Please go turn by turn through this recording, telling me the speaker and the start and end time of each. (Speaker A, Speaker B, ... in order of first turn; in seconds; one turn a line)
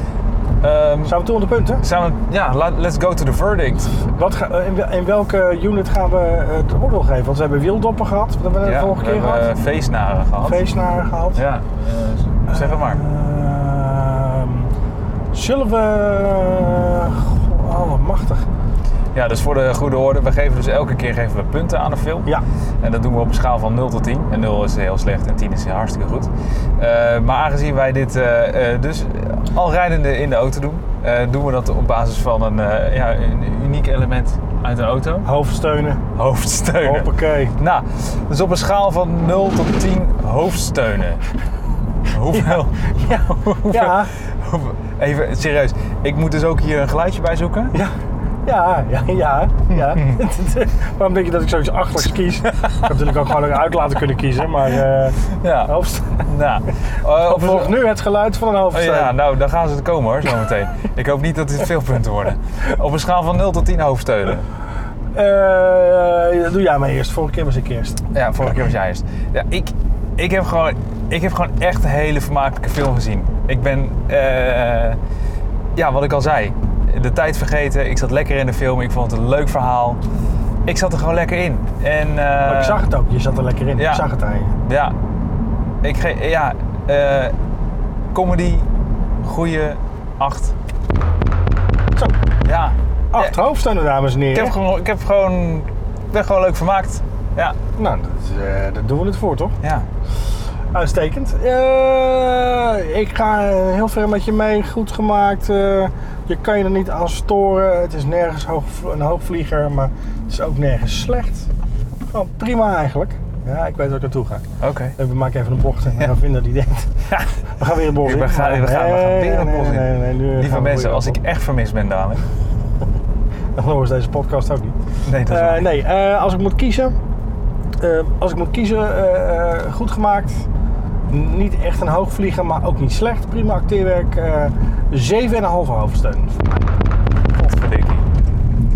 Speaker A: 0.6-1.2
Speaker B: 1.0-1.8
Speaker A: 1.8-4.0
Speaker B: 4.1-9.5
Speaker A: 8.6-10.6
Speaker B: 10.4-11.4
Speaker A: 11.3-13.0
Speaker B: 12.5-14.7
Speaker B: 15.3-18.4
Speaker A: 19.1-22.3
Speaker A: 22.8-35.3
Speaker B: 35.2-36.0
Speaker A: 36.1-41.2
Speaker B: 36.8-37.5
Speaker A: 42.1-47.7
Speaker B: 43.0-44.1
Speaker B: 48.4-56.2
Speaker A: 49.7-50.2
Speaker A: 55.3-57.8
Speaker B: 57.1-59.1
Speaker A: 58.7-64.5
Speaker B: 65.1-68.0
Speaker A: 68.1-75.0
Speaker A: 75.7-80.0
Speaker A: 80.6-82.8
Speaker B: 82.4-84.6
Speaker A: 83.8-84.0
Speaker A: 84.6-84.9
Speaker A: 85.8-87.3
Speaker A: 88.1-88.7
Speaker A: 89.2-90.5
Speaker A: 92.4-93.3
Speaker B: 93.1-94.5
Speaker A: 94.3-97.6
Speaker B: 97.8-99.5
Speaker A: 99.6-99.9
Speaker B: 100.7-111.5
Speaker B: 112.1-114.5
Speaker A: 114.6-114.9
Speaker B: 115.0-117.0
Speaker B: 117.5-121.2
Speaker A: 118.0-122.2
Speaker B: 123.5-126.9
Speaker A: 125.0-125.7
Speaker B: 127.8-130.5
Speaker B: 131.1-136.6
Speaker A: 137.3-138.1